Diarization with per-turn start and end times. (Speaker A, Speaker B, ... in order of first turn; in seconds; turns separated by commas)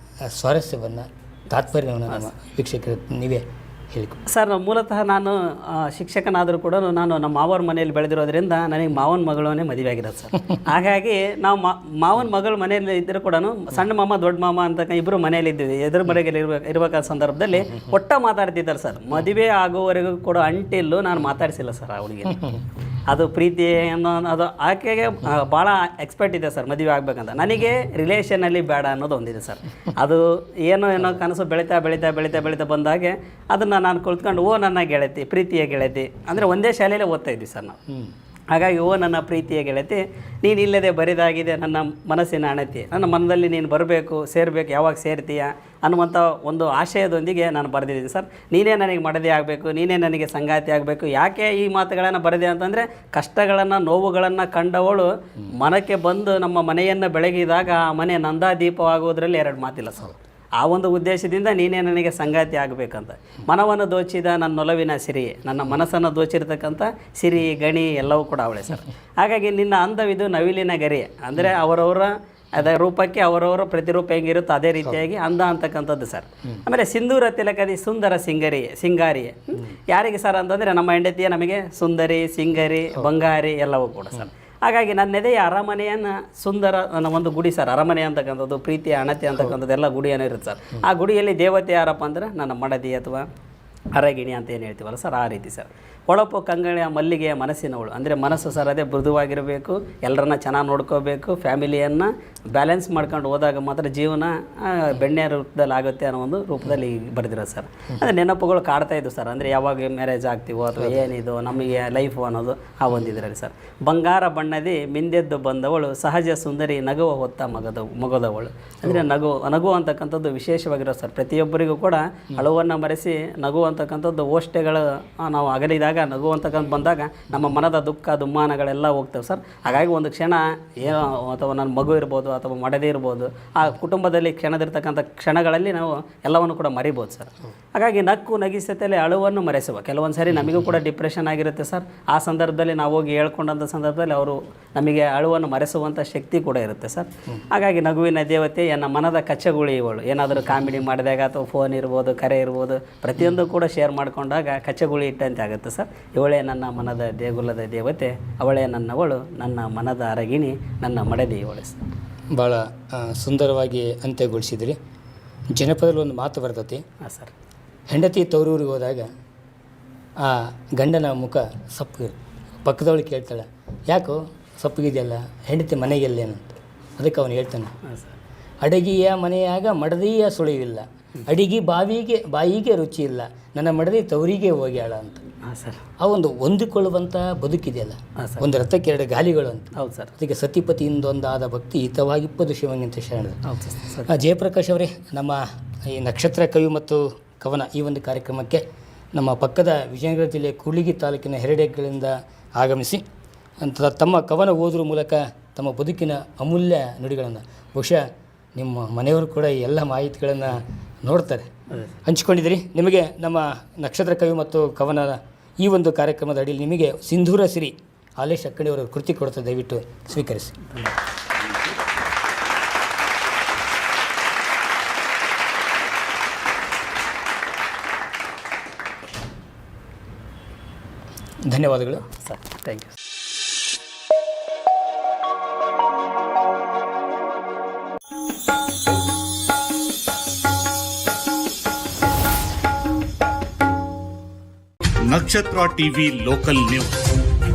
Speaker A: 0.3-4.2, Speaker B: 4.3-22.5, Speaker B: 23.1-37.8, Speaker A: 37.9-38.1, Speaker B: 38.5-93.3, Speaker B: 93.9-161.8, Speaker A: 162.3-164.8, Speaker A: 165.5-166.8, Speaker B: 167.0-167.3, Speaker A: 167.9-169.1, Speaker A: 170.2-177.7, Speaker B: 177.8-178.2, Speaker A: 178.6-185.2, Speaker B: 185.4-185.8, Speaker A: 186.0-193.4, Speaker B: 188.2-188.5, Speaker B: 189.8-190.1, Speaker B: 193.4-194.1, Speaker A: 194.1-198.6, Speaker A: 199.2-203.0, Speaker A: 203.6-211.5, Speaker A: 212.1-220.6, Speaker B: 220.7-220.9, Speaker A: 231.5-232.1, Speaker B: 232.1-232.9, Speaker C: 245.1-247.2